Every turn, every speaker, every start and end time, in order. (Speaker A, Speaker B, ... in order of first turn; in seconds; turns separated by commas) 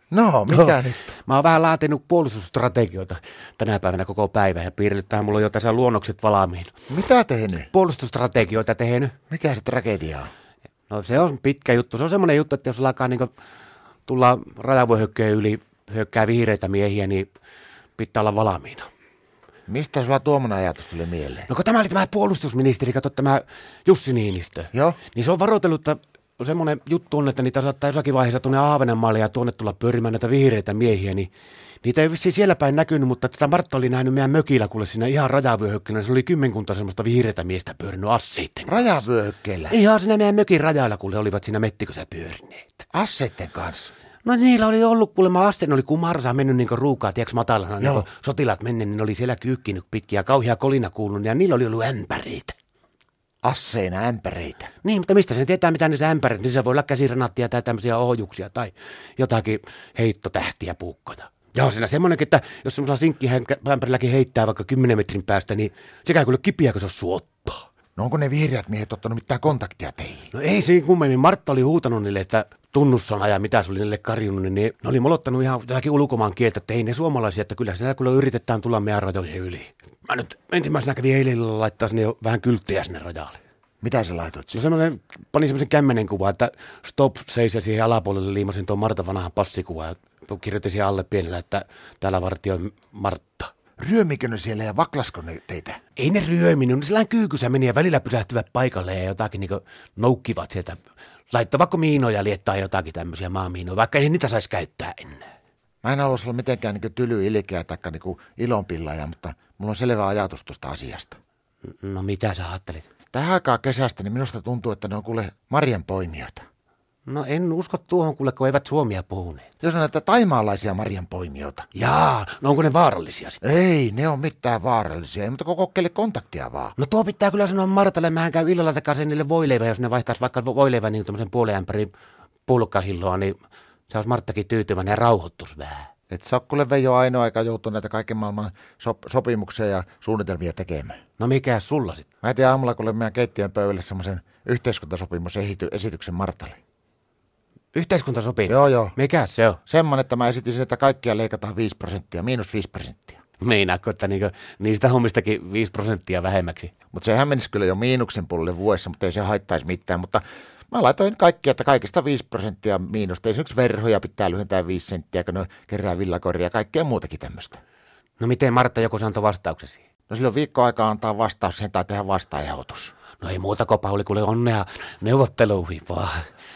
Speaker A: 0.1-1.0, Speaker B: 0.5-6.7, Speaker A: 6.9-7.7, Speaker B: 7.7-9.1, Speaker A: 9.3-10.3, Speaker B: 10.9-13.3, Speaker B: 14.1-17.3, Speaker B: 18.0-18.9, Speaker A: 19.7-21.5, Speaker B: 21.5-31.3, Speaker A: 24.7-25.0, Speaker B: 31.8-38.9, Speaker A: 38.6-39.8, Speaker B: 39.7-42.8, Speaker A: 42.9-43.9, Speaker B: 44.2-52.5, Speaker A: 47.8-48.0, Speaker A: 53.4-54.7, Speaker B: 54.8-67.7, Speaker A: 68.0-70.3, Speaker B: 70.3-83.4, Speaker A: 83.8-84.6, Speaker B: 84.5-93.5, Speaker A: 93.8-95.8, Speaker B: 96.0-100.8, Speaker B: 101.3-105.3, Speaker A: 105.8-111.2, Speaker B: 111.8-112.9, Speaker A: 113.1-116.5, Speaker B: 117.1-119.5, Speaker A: 119.6-121.7, Speaker B: 121.7-123.4, Speaker A: 123.4-126.7, Speaker B: 126.8-131.9, Speaker B: 132.4-133.3, Speaker B: 133.9-135.9, Speaker A: 136.1-141.0, Speaker B: 141.2-142.1, Speaker A: 142.2-146.6, Speaker B: 147.7-149.6, Speaker A: 148.5-148.9, Speaker A: 149.7-153.2, Speaker B: 153.4-156.7, Speaker A: 156.9-167.6, Speaker B: 168.2-169.8, Speaker A: 170.1-172.9, Speaker B: 173.2-176.2